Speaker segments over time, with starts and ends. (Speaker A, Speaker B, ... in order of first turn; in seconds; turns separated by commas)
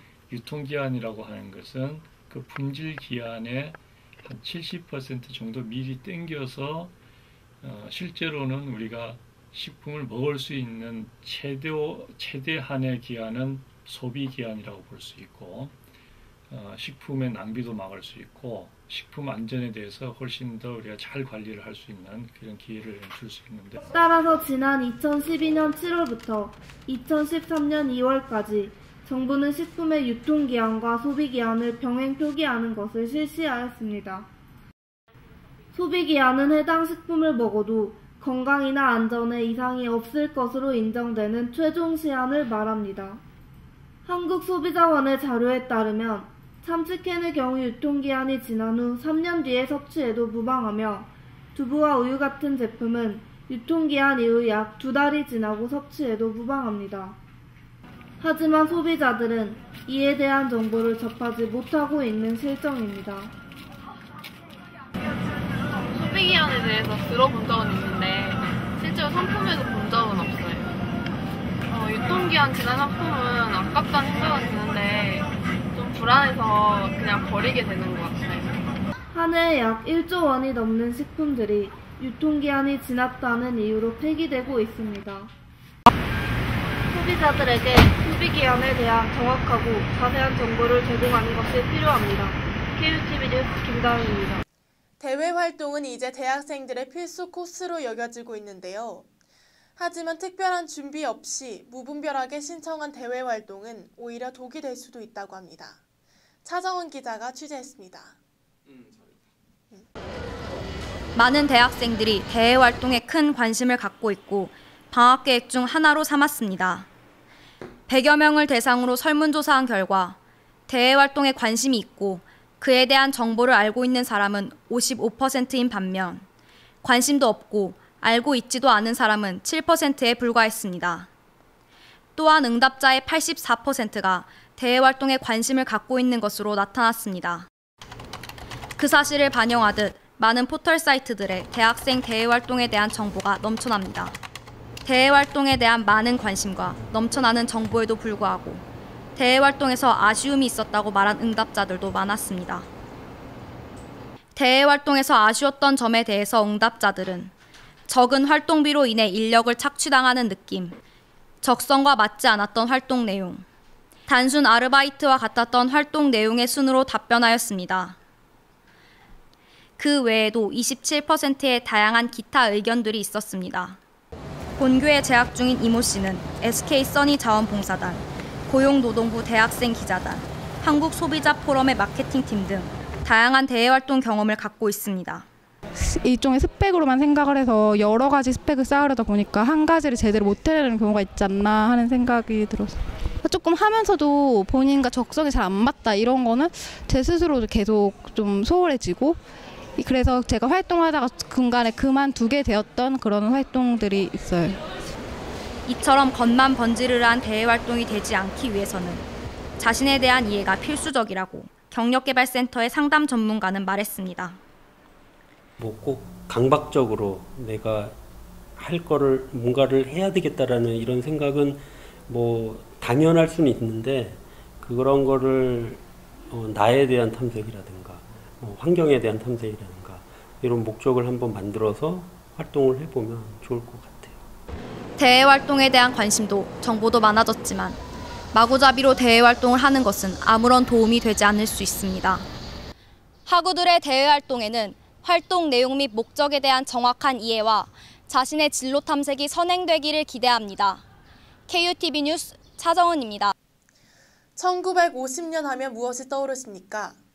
Speaker A: 0.3-6.9, Speaker A: 7.6-15.7, Speaker A: 16.5-23.8, Speaker B: 23.9-34.3, Speaker B: 35.7-43.2, Speaker B: 44.0-57.2, Speaker B: 58.2-63.3, Speaker C: 66.0-70.6, Speaker C: 71.7-75.2, Speaker C: 75.8-78.5, Speaker B: 79.1-85.3, Speaker B: 86.9-94.4, Speaker D: 95.0-99.0, Speaker D: 99.8-105.8, Speaker D: 106.4-108.1, Speaker E: 111.1-116.9, Speaker E: 117.9-120.2, Speaker E: 120.7-126.2, Speaker E: 126.8-131.1, Speaker E: 132.2-137.5, Speaker E: 138.8-144.2, Speaker E: 144.8-148.6, Speaker E: 149.2-152.7, Speaker E: 154.3-157.3, Speaker E: 157.9-160.8, Speaker E: 161.4-163.4, Speaker E: 164.1-168.0, Speaker E: 169.8-173.8, Speaker E: 174.6-185.2, Speaker F: 185.9-199.2, Speaker F: 199.8-204.6, Speaker E: 205.7-209.0, Speaker E: 209.6-214.4, Speaker G: 215.6-218.0, Speaker G: 218.6-234.2, Speaker E: 235.0-237.8, Speaker E: 238.3-242.3, Speaker E: 243.2-250.8, Speaker E: 251.5-253.3, Speaker D: 254.4-256.9